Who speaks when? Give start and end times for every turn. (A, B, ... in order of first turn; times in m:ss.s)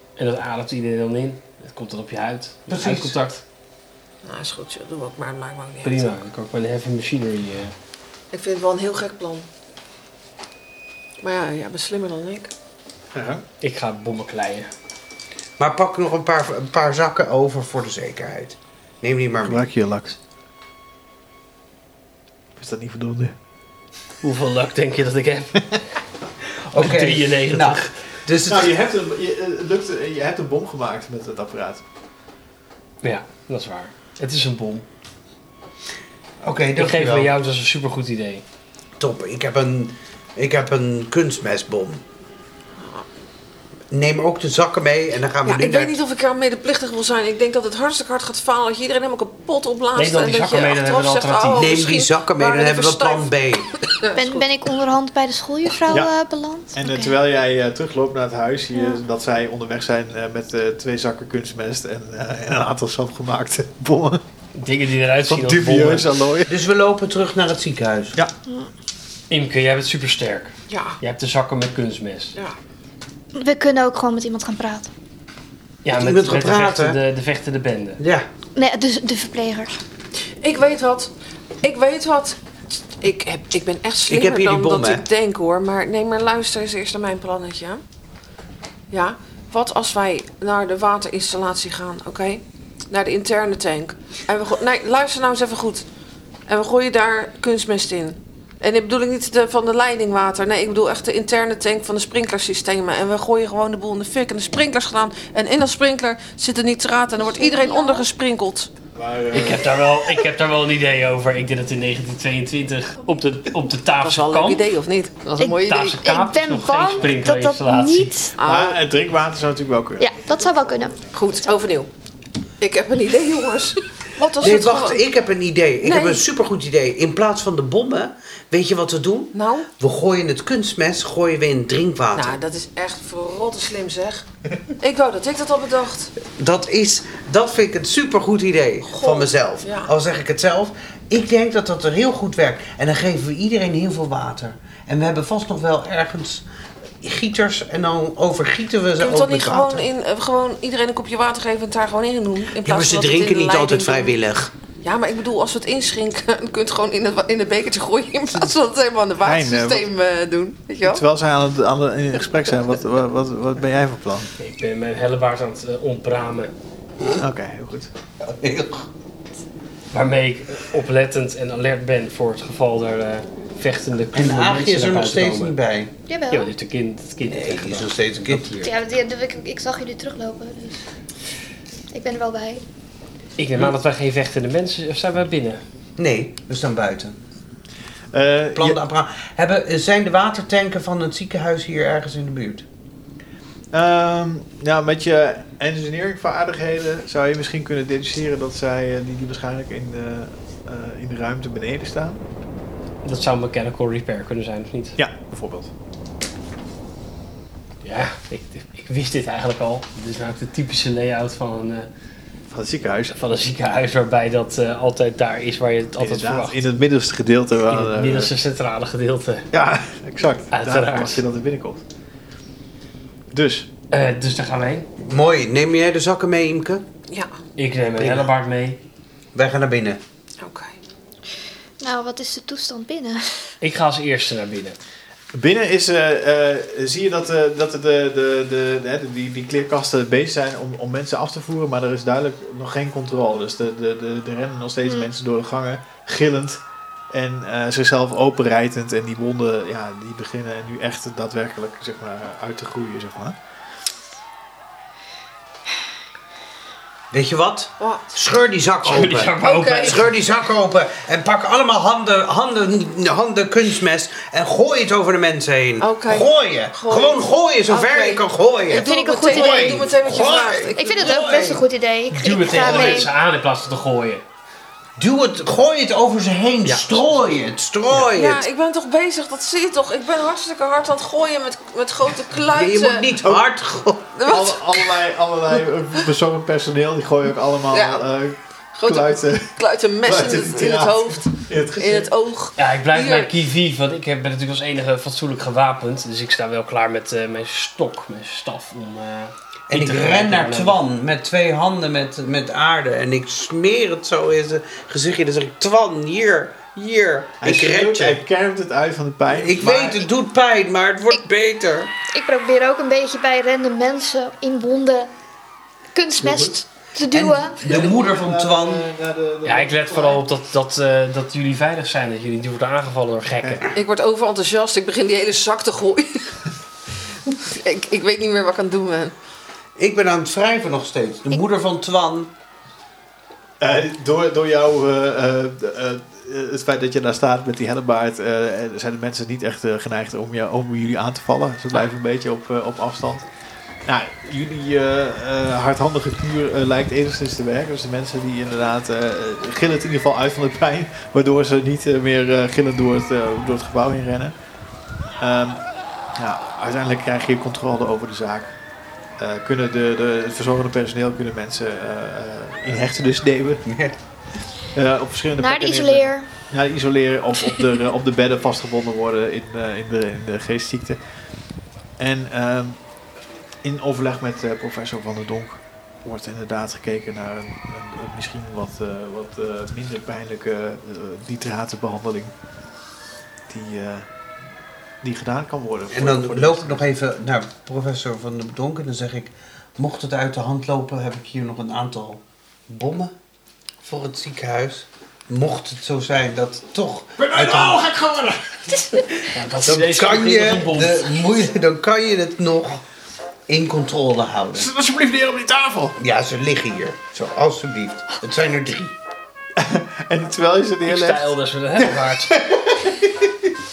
0:00.2-0:03.4 A
0:02.7-0:03.2 B
0:04.2-0:06.2 C
0:05.8-0:07.7 A
0:08.3-0:09.5 C
0:11.2-0:12.5 C
0:13.1-0:13.4 D
0:13.6-0:14.7 A
0:15.6-0:19.7 B
0:19.4-0:20.1 D
0:22.6-0:23.3 D
0:24.2-0:25.7 A
0:26.6-0:28.8 B
0:26.7-0:27.9 A
0:28.4-0:31.8 D
0:33.0-0:34.8 A
0:36.4-0:37.3 B
0:36.8-0:38.4 A
0:39.0-0:42.0 B
0:42.8-0:43.0 C
0:43.9-0:46.0 B
0:45.4-0:53.3 C
0:50.0-0:51.7 A
0:51.6-0:53.7 B
0:53.9-0:54.5 C
0:54.2-0:57.2 E
0:55.9-0:56.1 D
0:56.7-1:04.2 D
0:58.7-0:59.0 E
1:04.5-1:06.1 A
1:05.3-1:06.5 D
1:06.5-1:08.2 B
1:09.3-1:12.4 A
1:10.7-1:11.0 C
1:13.3-1:14.9 E
1:15.8-1:18.0 A
1:15.9-1:17.0 B
1:18.0-1:18.3 B
1:18.5-1:19.8 E
1:20.4-1:22.4 C
1:23.0-1:27.8 C
1:24.1-1:25.0 B
1:28.9-1:35.8 C
1:36.5-1:48.7 C
1:47.2-1:48.0 E
1:48.9-1:49.8 D
1:49.3-1:54.7 A
1:54.0-1:56.0 C
1:55.4-1:58.4 E
1:55.4-1:58.1 A
1:58.4-1:58.8 C
1:58.4-2:00.2 D
2:00.0-2:01.0 E
2:01.1-2:01.9 C
2:02.6-2:05.0 C
2:04.4-2:12.4 B
2:05.8-2:06.2 C
2:09.3-2:09.7 C
2:12.1-2:14.2 C
2:14.8-2:16.1 C
2:16.3-2:26.5 B
2:18.8-2:19.9 C
2:27.0-2:29.9 B
2:29.0-2:34.2 C
2:32.6-2:34.5 B
2:34.8-2:41.0 C
2:39.2-2:39.8 D
2:40.8-2:44.3 D
2:44.4-2:46.5 A
2:47.2-2:47.9 D
2:48.2-2:48.9 B
2:49.9-2:55.6 A
2:54.1-2:55.9 B
2:56.1-2:56.5 E
2:56.3-2:58.5 A
2:57.3-2:58.7 B
2:58.6-3:00.8 E
3:01.9-3:02.6 E
3:03.4-3:05.6 A
3:06.0-3:07.2 B
3:08.1-3:08.8 D
3:08.5-3:12.6 B
3:13.7-3:22.2 D
3:23.0-3:25.0 A
3:25.0-3:25.7 D
3:27.8-3:31.9 A
3:32.5-3:33.1 D
3:33.1-3:36.6 A
3:36.0-3:38.3 D
3:37.7-3:39.5 A
3:39.5-3:41.8 D
3:40.5-3:41.2 A
3:43.3-3:43.7 D
3:43.9-3:44.9 A
3:45.0-3:46.8 B
3:47.6-3:48.8 A
3:48.0-3:48.3 B
3:49.3-3:50.0 B
3:50.4-3:50.8 C
3:51.8-3:53.5 E
3:53.6-3:54.8 A
3:55.3-4:13.4 D
4:17.1-4:31.6 B
4:17.8-4:18.0 C
4:18.8-4:20.1 A
4:19.1-4:20.1 C
4:25.8-4:31.6 C
4:28.8-4:29.9 E
4:30.8-4:33.1 E
4:32.1-4:34.2 A
4:35.0-4:38.4 B
4:36.6-4:37.1 A
4:38.1-4:43.1 C
4:42.5-4:44.2 B
4:44.2-4:45.0 C
4:44.3-4:49.5 D
4:47.7-4:48.1 C
4:48.7-4:53.3 C
4:50.0-4:52.1 D
4:52.6-5:00.8 A
4:59.7-5:08.2 B
5:07.4-5:10.0 D
5:09.3-5:11.9 B
5:12.0-5:15.1 E
5:15.9-5:17.7 E
5:16.1-5:16.5 D
5:17.1-5:18.8 B
5:17.6-5:20.2 D
5:19.4-5:23.6 A
5:23.4-5:23.7 D
5:23.7-5:26.4 C
5:27.2-5:29.1 C
5:29.8-5:32.3 B
5:33.6-5:43.2 D
5:43.8-5:54.3 D
5:55.2-5:55.6 D
5:56.2-5:58.6 D
5:59.2-6:03.7 D
6:03.6-6:04.0 B
6:04.7-6:11.0 D
6:05.4-6:06.3 E
6:12.0-6:12.8 D
6:13.6-6:22.3 D
6:23.5-6:24.1 D
6:25.0-6:26.8 D
6:25.9-6:33.1 B
6:33.8-6:37.9 B
6:37.2-6:39.2 D
6:39.3-6:41.1 A
6:39.6-6:42.8 B
6:43.5-6:44.7 B
6:44.5-6:46.0 D
6:46.0-6:49.0 B
6:49.6-6:53.5 D
6:50.8-6:52.3 A